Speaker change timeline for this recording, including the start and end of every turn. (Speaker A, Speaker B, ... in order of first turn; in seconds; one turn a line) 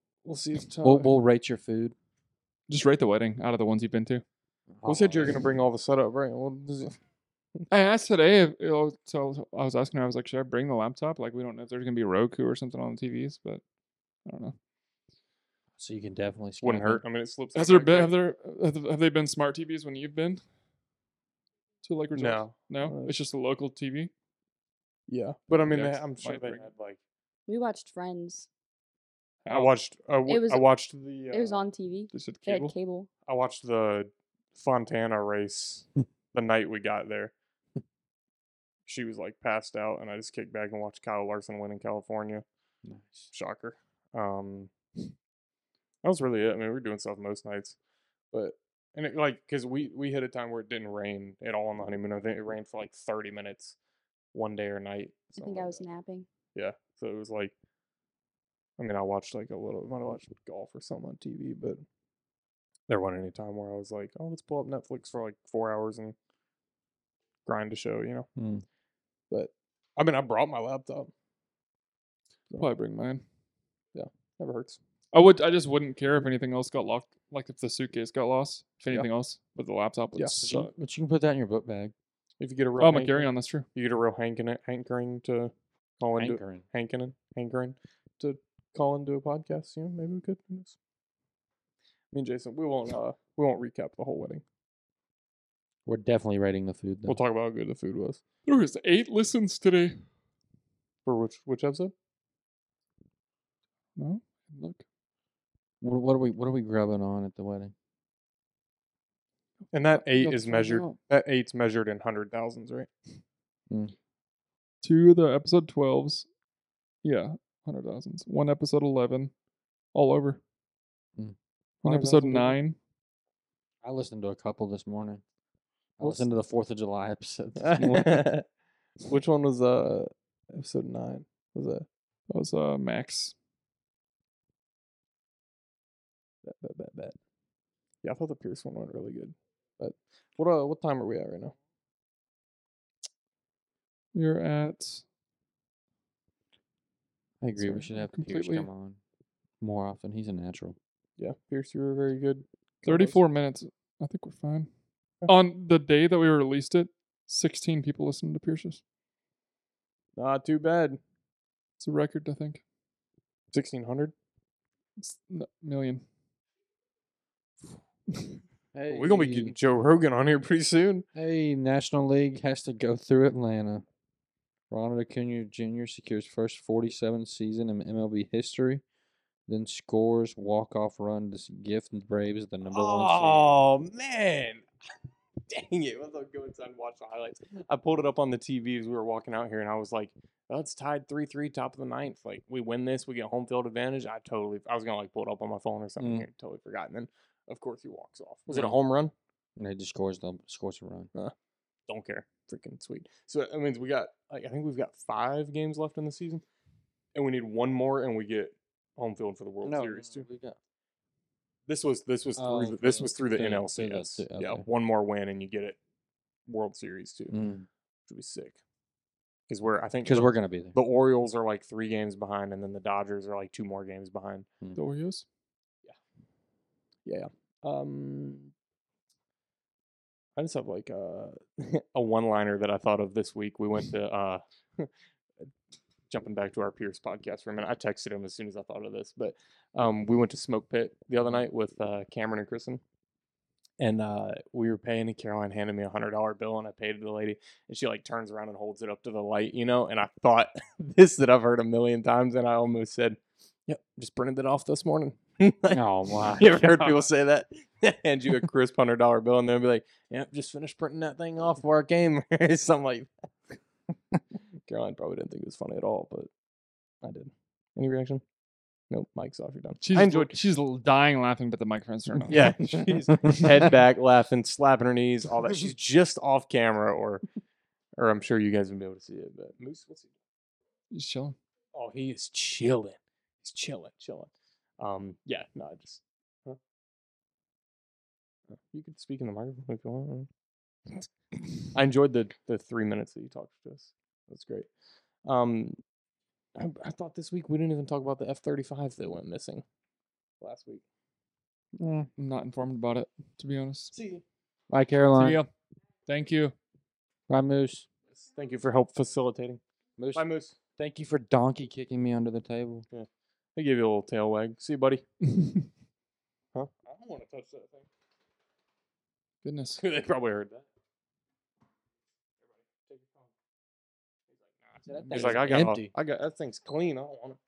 Speaker A: 0.2-1.2
Speaker B: 0.8-1.9
Speaker C: 2.7-4.2
Speaker B: 4.8-5.3
Speaker A: 4.8-7.0
Speaker C: 7.7-13.6
Speaker C: 14.2-14.5
Speaker B: 15.8-17.0
Speaker A: 16.6-18.1
Speaker C: 17.5-20.4
Speaker C: 21.8-24.1
Speaker A: 22.1-23.1
Speaker A: 25.1-27.0
Speaker C: 25.5-26.7
Speaker D: 27.5-28.5
Speaker C: 29.4-29.7
Speaker A: 29.4-31.6
Speaker D: 30.3-30.6
Speaker D: 31.3-33.1
Speaker C: 32.1-32.7
Speaker A: 33.2-37.3
Speaker A: 38.9-42.4
Speaker B: 42.8-43.3
Speaker A: 43.3-44.7
Speaker A: 46.0-47.8
Speaker A: 48.3-53.8
Speaker A: 54.3-55.8
Speaker D: 55.4-56.3
Speaker A: 56.5-57.5
Speaker A: 58.8-61.8
Speaker A: 62.9-66.2
Speaker A: 67.4-68.3
Speaker B: 68.3-68.6
Speaker A: 69.3-71.1
Speaker C: 72.6-73.2
Speaker A: 73.9-74.8
Speaker C: 75.1-80.7
Speaker B: 80.4-81.9
Speaker A: 82.4-90.8
Speaker C: 82.8-83.7
Speaker B: 86.2-86.6
Speaker A: 92.1-94.4
Speaker B: 95.8-97.2
Speaker A: 97.1-98.2
Speaker C: 98.5-100.0
Speaker A: 101.0-101.9
Speaker C: 104.0-104.8
Speaker B: 105.8-107.7
Speaker A: 109.7-112.9
Speaker C: 110.0-111.0
Speaker B: 113.7-113.9
Speaker C: 114.8-116.2
Speaker C: 117.0-119.3
Speaker C: 119.9-120.4
Speaker C: 121.8-122.8
Speaker A: 121.8-122.5
Speaker B: 123.8-125.2
Speaker B: 126.0-128.3
Speaker A: 126.0-126.2
Speaker A: 127.6-128.4
Speaker A: 129.0-131.8
Speaker C: 132.3-133.3
Speaker A: 136.4-137.2
Speaker A: 138.0-141.5
Speaker C: 144.1-145.0
Speaker B: 147.4-149.0
Speaker C: 147.6-148.7
Speaker B: 149.6-150.8
Speaker A: 151.2-153.2
Speaker C: 152.8-154.7
Speaker C: 155.2-158.8
Speaker A: 160.2-161.0
Speaker C: 161.8-162.6
Speaker A: 163.5-164.1
Speaker C: 165.0-166.0
Speaker B: 168.7-169.5
Speaker A: 168.9-171.1
Speaker B: 171.1-173.8
Speaker B: 174.7-178.8
Speaker B: 179.5-183.6
Speaker A: 182.7-184.7
Speaker A: 185.5-199.1
Speaker B: 196.0-196.3
Speaker B: 198.5-198.8
Speaker B: 199.6-201.1
Speaker A: 201.9-206.4
Speaker A: 207.1-210.3
Speaker B: 209.6-210.6
Speaker A: 211.7-215.8
Speaker B: 212.4-214.6
Speaker A: 216.5-217.3
Speaker B: 217.3-217.7
Speaker A: 218.1-218.6
Speaker A: 219.5-224.5
Speaker B: 220.0-220.8
Speaker C: 224.7-225.2
Speaker A: 227.1-228.5
Speaker A: 230.4-234.9
Speaker A: 236.1-242.8
Speaker A: 243.8-263.6
Speaker B: 255.7-257.1
Speaker A: 264.6-266.3
Speaker A: 267.0-268.2
Speaker A: 268.9-270.3
Speaker C: 269.8-272.9
Speaker A: 272.3-277.2
Speaker A: 278.0-280.1
Speaker C: 280.9-281.4
Speaker A: 281.7-286.6
Speaker A: 288.5-290.3
Speaker A: 291.6-294.7
Speaker A: 295.2-295.8
Speaker A: 296.6-299.6
Speaker A: 300.4-300.8
Speaker B: 301.8-302.1
Speaker C: 302.2-303.9
Speaker A: 303.9-304.2
Speaker B: 304.7-305.4
Speaker C: 305.1-305.5
Speaker C: 306.1-306.5
Speaker B: 307.3-307.9
Speaker A: 308.1-309.6
Speaker B: 310.0-310.2
Speaker A: 310.1-310.6
Speaker B: 310.8-312.9
Speaker A: 312.9-315.0
Speaker C: 315.4-315.6
Speaker A: 316.5-317.9
Speaker C: 319.4-319.8
Speaker A: 319.8-320.6
Speaker A: 322.9-323.2
Speaker B: 324.9-325.9
Speaker A: 325.0-327.4
Speaker C: 325.1-325.4